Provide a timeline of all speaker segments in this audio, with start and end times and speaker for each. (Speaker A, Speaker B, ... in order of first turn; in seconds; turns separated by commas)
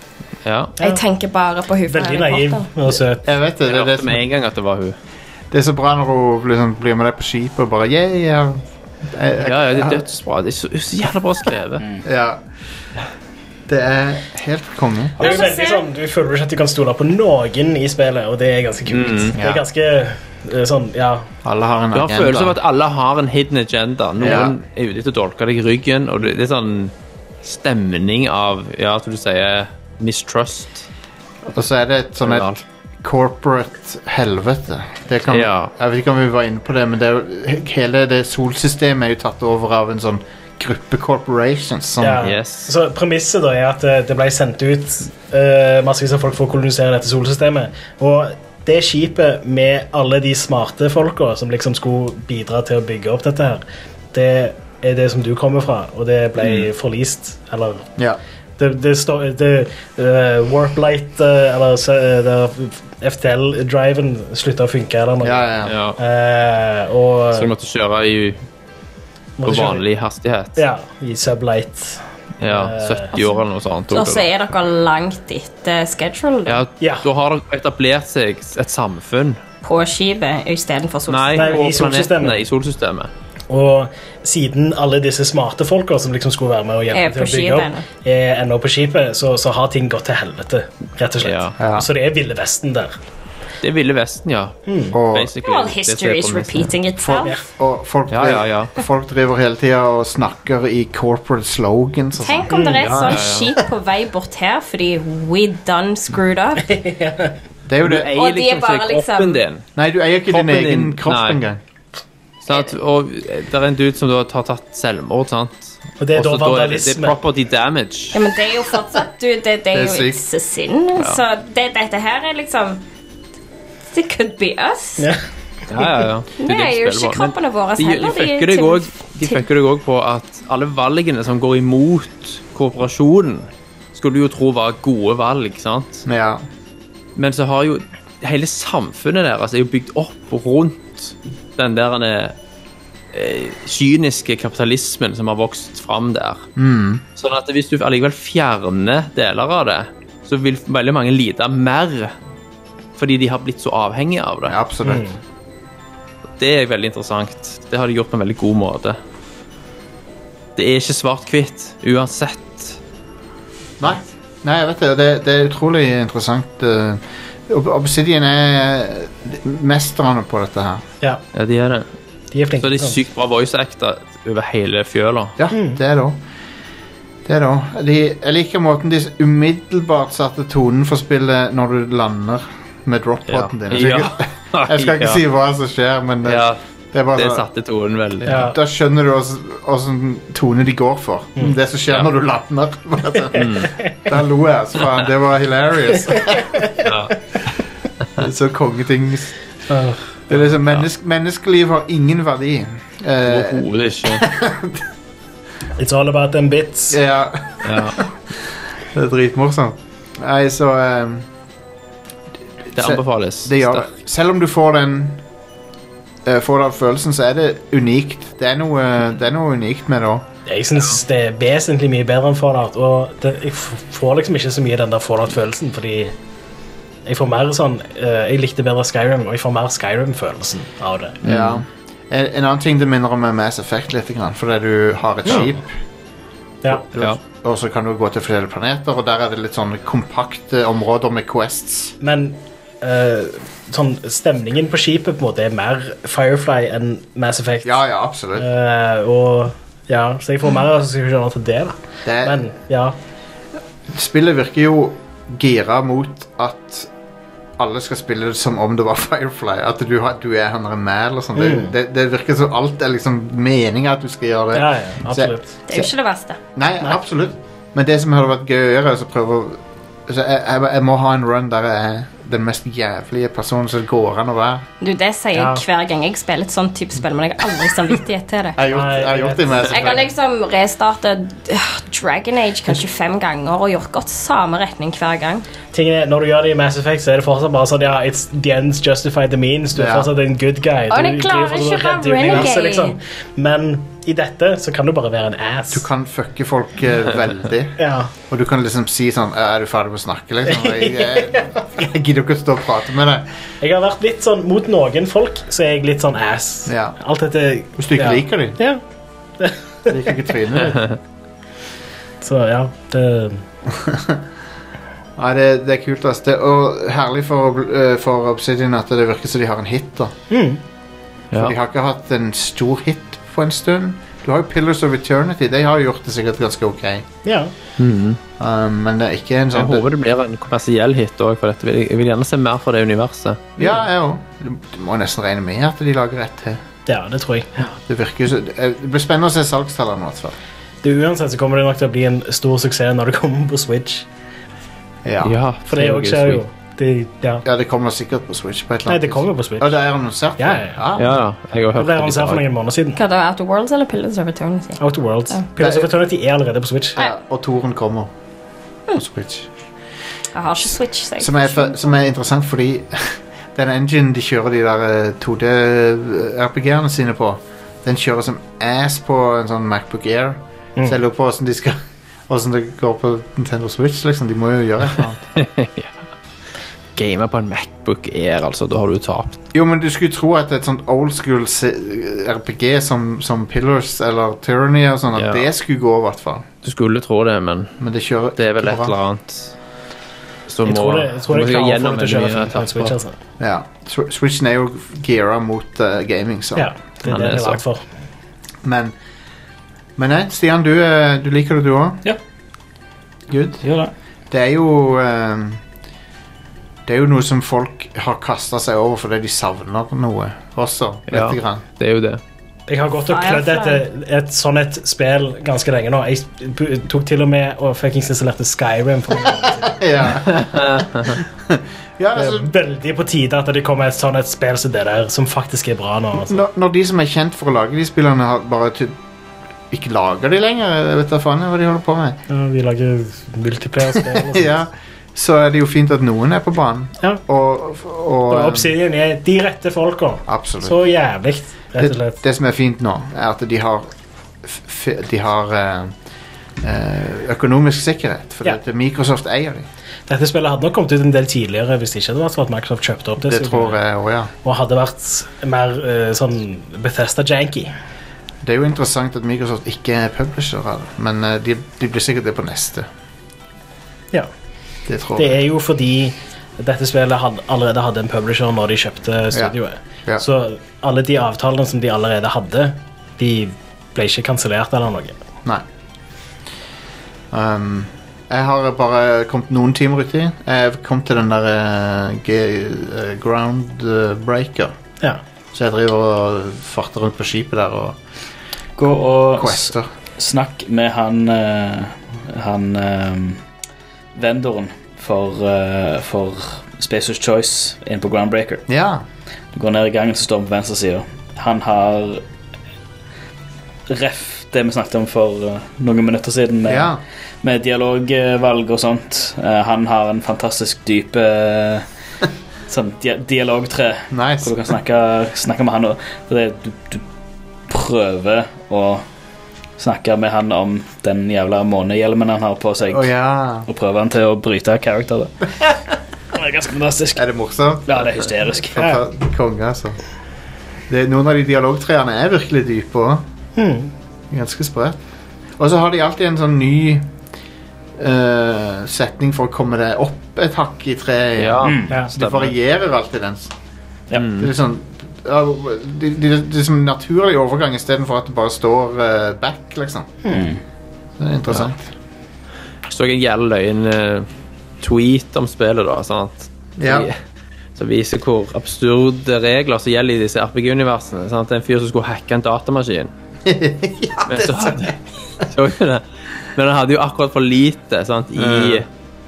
Speaker A: 0.4-0.7, Speaker B: 0.8-2.7, Speaker C: 1.9-3.3, Speaker D: 3.2-4.2, Speaker A: 3.7-4.9, Speaker D: 5.5-10.0, Speaker A: 9.4-11.8, Speaker D: 12.0-12.4, Speaker D: 13.7-15.3, Speaker C: 15.2-21.3, Speaker B: 15.2-15.8, Speaker A: 18.9-19.4, Speaker D: 19.3-19.6, Speaker D: 21.4-22.6, Speaker A: 21.9-26.9, Speaker D: 24.2-24.6, Speaker A: 27.4-30.9, Speaker D: 31.5-32.5, Speaker A: 32.2-32.6, Speaker D: 33.0-42.3, Speaker A: 35.3-35.7, Speaker C: 42.0-57.9, Speaker A: 42.2-42.7, Speaker C: 58.6-65.5, Speaker D: 65.2-65.8, Speaker A: 65.6-66.0, Speaker C: 66.0-67.5, Speaker A: 67.3-68.3, Speaker C: 69.4-69.8, Speaker A: 69.4-70.6, Speaker C: 70.5-73.1, Speaker A: 72.4-74.2, Speaker B: 73.1-76.6, Speaker A: 76.5-79.4, Speaker B: 79.6-81.6, Speaker A: 81.1-83.1, Speaker C: 81.3-82.4, Speaker C: 83.5-93.0, Speaker B: 86.9-87.8, Speaker A: 91.2-91.5, Speaker D: 91.6-91.9, Speaker A: 93.6-96.7, Speaker C: 94.7-95.0, Speaker D: 94.9-95.3, Speaker B: 95.4-97.3, Speaker D: 97.0-102.5, Speaker A: 98.1-98.7, Speaker B: 102.2-106.7, Speaker C: 102.5-103.2, Speaker A: 102.8-103.5, Speaker C: 106.6-107.4, Speaker D: 107.7-108.1, Speaker A: 107.8-109.7, Speaker B: 108.1-109.4, Speaker D: 109.8-111.6, Speaker A: 110.3-111.4, Speaker A: 112.4-118.2, Speaker C: 116.0-117.2, Speaker B: 118.1-122.8, Speaker D: 119.7-120.2, Speaker B: 123.9-125.1, Speaker A: 125.7-136.1, Speaker B: 126.4-129.4, Speaker D: 136.1-136.4, Speaker A: 137.2-142.3, Speaker A: 143.1-146.4, Speaker D: 146.6-147.0, Speaker A: 147.2-152.1, Speaker A: 153.0-154.6, Speaker D: 154.4-155.0, Speaker C: 154.8-155.1, Speaker A: 156.4-159.0, Speaker A: 160.6-162.8, Speaker D: 163.8-170.8, Speaker A: 171.3-171.9, Speaker C: 172.3-173.0, Speaker A: 172.6-175.3, Speaker D: 175.4-176.2, Speaker C: 175.5-175.8, Speaker D: 177.2-187.4, Speaker A: 183.3-185.2, Speaker A: 186.2-186.6, Speaker A: 187.1-188.5, Speaker D: 188.2-196.6, Speaker C: 188.3-188.6, Speaker A: 193.3-193.7, Speaker C: 196.1-196.7, Speaker A: 196.8-197.1, Speaker D: 198.2-199.3, Speaker C: 199.7-200.1, Speaker D: 200.3-204.8, Speaker A: 203.2-204.3, Speaker C: 205.8-207.0, Speaker D: 206.9-208.1, Speaker A: 207.6-208.0, Speaker D: 208.9-211.3, Speaker D: 212.7-215.2, Speaker A: 212.7-213.9, Speaker D: 216.2-220.2, Speaker C: 220.5-226.1, Speaker C: 227.1-231.2, Speaker A: 231.2-231.6, Speaker D: 231.2-235.7, Speaker D: 236.7-241.9, Speaker C: 242.0-247.8, Speaker D: 247.6-248.5, Speaker C: 248.3-252.9, Speaker D: 252.0-252.4, Speaker D: 253.9-256.9, Speaker D: 257.6-265.9, Speaker C: 261.4-261.7, Speaker C: 264.5-265.5, Speaker B: 265.7-266.4, Speaker D: 266.5-274.7, Speaker B: 274.8-278.6, Speaker C: 275.3-275.6, Speaker D: 278.6-280.1, Speaker C: 278.6-279.9, Speaker B: 279.7-285.4, Speaker C: 285.7-295.8, Speaker D: 289.7-290.1, Speaker B: 290.9-292.9, Speaker D: 295.7-303.2, Speaker C: 297.8-298.1, Speaker C: 300.5-301.5, Speaker C: 303.6-308.8, Speaker D: 306.6-307.0, Speaker D: 307.8-308.6, Speaker C: 309.4-310.2, Speaker D: 309.9-310.9, Speaker C: 312.2-313.4, Speaker D: 313.8-314.2, Speaker D: 315.2-320.1, Speaker C: 320.3-320.6, Speaker D: 321.4-327.0, Speaker C: 327.2-327.5, Speaker A: 327.8-328.2, Speaker D: 328.4-329.9, Speaker A: 329.5-333.5, Speaker D: 333.6-336.6, Speaker C: 336.9-337.5, Speaker D: 337.9-340.4, Speaker C: 340.8-344.1, Speaker D: 345.0-345.4, Speaker A: 345.2-346.4, Speaker C: 345.7-347.4, Speaker D: 347.4-351.1, Speaker C: 348.9-349.8, Speaker C: 350.4-350.8, Speaker A: 350.9-352.4, Speaker C: 351.8-353.0, Speaker B: 352.9-355.4, Speaker C: 354.8-357.0, Speaker D: 355.6-355.9, Speaker D: 356.9-358.1, Speaker D: 358.9-359.5, Speaker B: 360.3-361.9, Speaker D: 361.2-375.2, Speaker A: 375.4-376.0, Speaker A: 376.9-379.4, Speaker D: 379.5-386.4, Speaker A: 385.1-385.5, Speaker A: 386.6-387.7, Speaker D: 387.8-388.9, Speaker A: 388.4-389.5, Speaker A: 390.5-392.9, Speaker C: 390.6-393.1, Speaker D: 393.4-396.7, Speaker C: 396.6-397.8, Speaker A: 397.0-397.6, Speaker D: 398.6-398.9, Speaker D: 400.0-402.0, Speaker D: 403.3-403.6, Speaker E: 403.6-403.9, Speaker D: 404.3-405.6, Speaker D: 406.9-411.6, Speaker A: 411.1-412.2, Speaker C: 412.7-419.8, Speaker B: 413.0-413.8, Speaker D: 419.4-422.5, Speaker A: 420.3-421.1, Speaker C: 422.1-426.4, Speaker D: 426.2-428.9, Speaker D: 429.7-432.2, Speaker C: 432.3-434.6, Speaker D: 433.9-438.7, Speaker C: 438.3-442.2, Speaker D: 440.3-440.8, Speaker D: 441.8-443.9, Speaker D: 444.4-445.9, Speaker D: 446.6-449.7, Speaker C: 450.1-453.8, Speaker D: 453.2-454.3, Speaker C: 454.4-457.7, Speaker D: 458.4-462.9, Speaker D: 464.9-465.4, Speaker C: 465.1-475.2, Speaker D: 477.3-484.7, Speaker D: 485.5-488.0, Speaker E: 488.8-493.4, Speaker D: 489.3-489.9, Speaker E: 494.1-498.6, Speaker D: 498.7-499.0, Speaker E: 499.5-502.2, Speaker E: 503.9-511.8, Speaker D: 506.7-507.0, Speaker E: 512.7-517.0, Speaker D: 514.1-514.5, Speaker E: 517.7-519.0, Speaker E: 519.8-523.0, Speaker D: 522.9-523.7, Speaker E: 523.7-525.3, Speaker E: 526.4-527.2, Speaker D: 527.1-530.0, Speaker E: 527.9-528.8, Speaker D: 530.9-533.2, Speaker C: 533.5-533.9, Speaker D: 534.3-535.0, Speaker D: 535.6-537.1, Speaker D: 538.0-543.5, Speaker A: 541.4-542.5, Speaker E: 541.6-542.0, Speaker A: 544.1-544.5, Speaker D: 544.4-550.2, Speaker E: 550.3-550.6, Speaker D: 551.2-551.8, Speaker A: 552.9-554.3, Speaker A: 554.8-557.1, Speaker D: 556.8-557.1, Speaker A: 557.8-563.1, Speaker D: 563.4-564.9, Speaker A: 564.3-566.0, Speaker A: 566.5-568.9, Speaker D: 568.4-568.8